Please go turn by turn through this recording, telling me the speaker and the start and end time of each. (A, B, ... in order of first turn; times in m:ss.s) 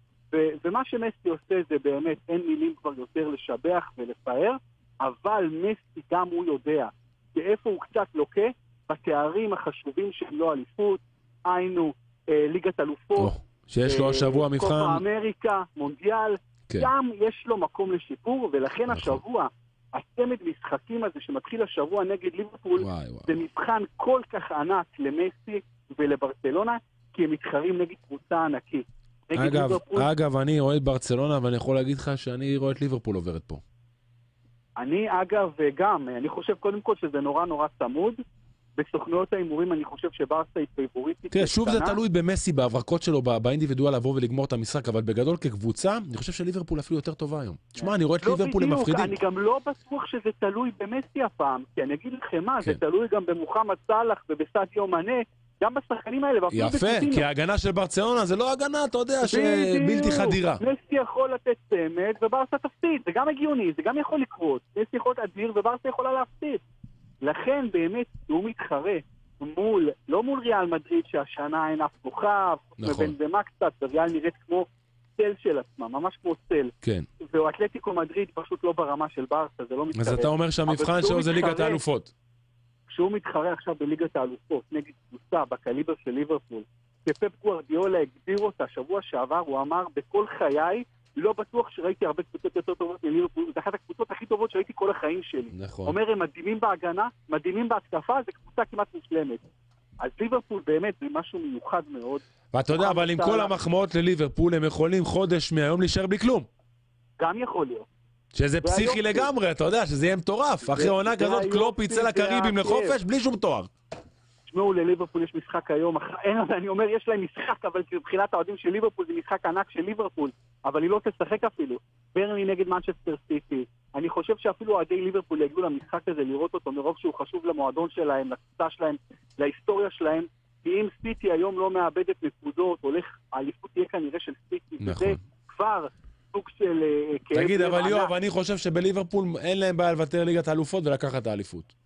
0:00.3-0:30.1 A
0:13.2-0:15.0 B
0:18.9-0:19.2 B
0:22.8-0:23.4 B
0:29.4-0:33.6 B
0:34.8-0:38.2 A
0:38.8-0:42.0 A
0:41.3-0:49.2 B
0:47.8-0:57.3 A
0:56.5-1:00.6 B
0:59.2-1:06.6 A
1:07.2-1:21.8 A
1:12.8-1:13.2 B
1:19.9-1:22.1 B
1:22.9-1:39.4 A
1:35.5-1:36.0 B
1:40.0-1:43.6 A
1:42.5-1:46.5 B
1:47.2-1:47.9 A
1:48.3-1:53.7 B
1:48.6-1:49.3 A
1:50.7-1:53.0 A
1:54.5-2:18.1 A
2:14.8-2:15.2 B
2:17.3-2:21.7 B